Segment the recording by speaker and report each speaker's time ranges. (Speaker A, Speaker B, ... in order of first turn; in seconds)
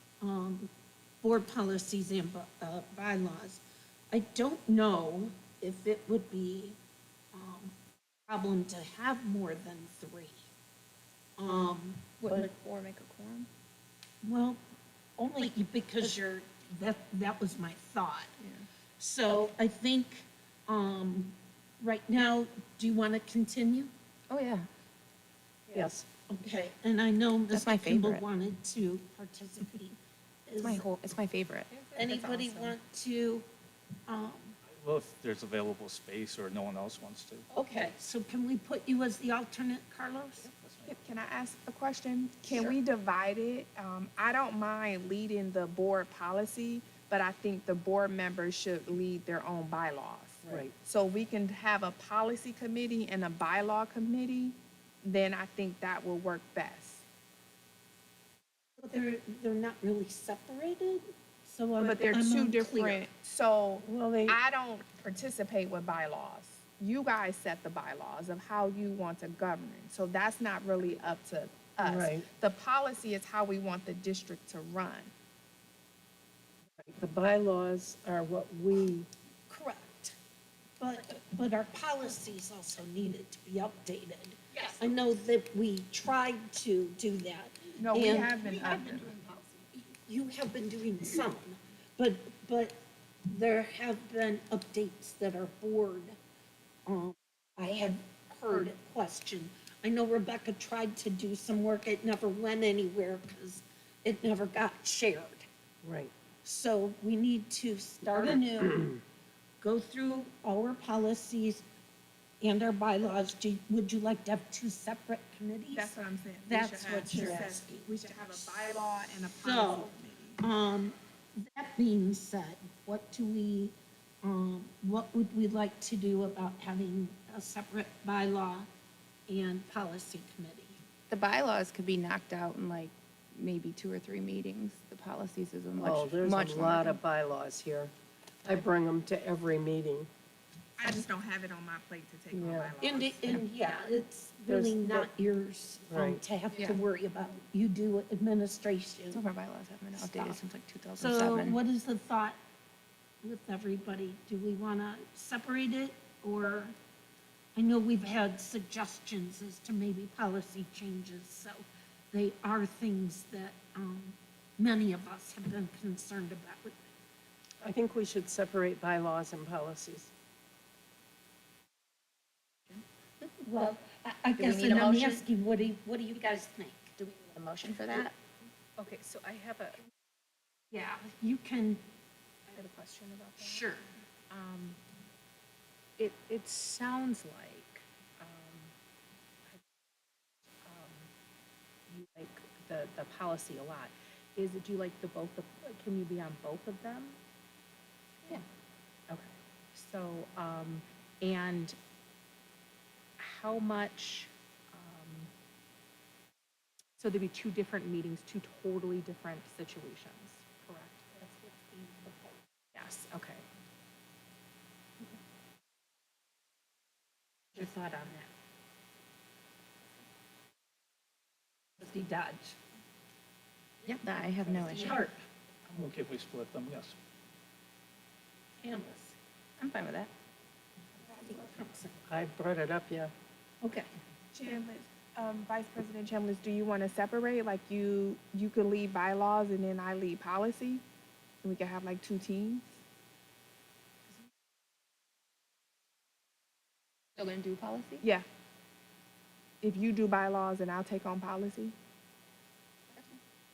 Speaker A: 0.2-0.7, 1.2-6.8, 7.3-7.8, 8.3-10.5, 11.4-12.2, 14.2-14.6, 15.2-18.4, 19.0-23.9, 26.3-30.9, 31.9-33.5, 34.1-34.6, 37.5-40.5, 58.8-63.0, 79.5-80.2, 80.8-96.2, 96.9-105.5, 106.4-109.0, 109.6-111.7, 112.4-115.9, 116.5-117.9, 119.4-128.7, 129.3-130.8, 142.8-149.2, 150.0-150.4, 151.0-152.4, 153.2-156.8, 157.6-166.8, 173.4-176.9, 180.7-181.8, 183.4-183.9, 211.2-212.4, 217.5-218.3, 221.8-222.6, 224.5-225.2, 228.6-229.2, 231.0-232.0, 233.6-233.9
Speaker B: 12.2-13.5, 24.3-24.7, 27.5-28.2, 30.6-32.8, 37.7-37.9, 131.1-137.0, 146.5-146.8, 149.1-151.6, 174.4-175.1, 177.0-178.1, 223.9-225.0, 229.6-230.1, 247.2-248.0
Speaker C: 25.7-26.1, 50.5-50.7, 63.9-64.4, 71.8-72.3, 76.8-79.1, 105.8-106.1, 135.8-137.9, 138.4-140.1, 142.3-142.7, 144.5-145.1, 145.9-146.2, 167.6-170.1, 232.1-233.1
Speaker D: 34.7-37.5, 40.4-40.9, 225.7-227.0
Speaker E: 40.9-57.0, 61.8-75.1, 87.8-89.1, 115.7-120.4, 140.8-143.4, 234.3-240.8, 241.4-242.7, 249.6-251.8
Speaker F: 178.8-179.8, 182.5-183.7, 184.3-184.8, 186.0-188.7, 190.6-191.1, 191.9-197.2, 199.1-201.8, 203.2-205.3, 207.0-211.1, 212.7-213.4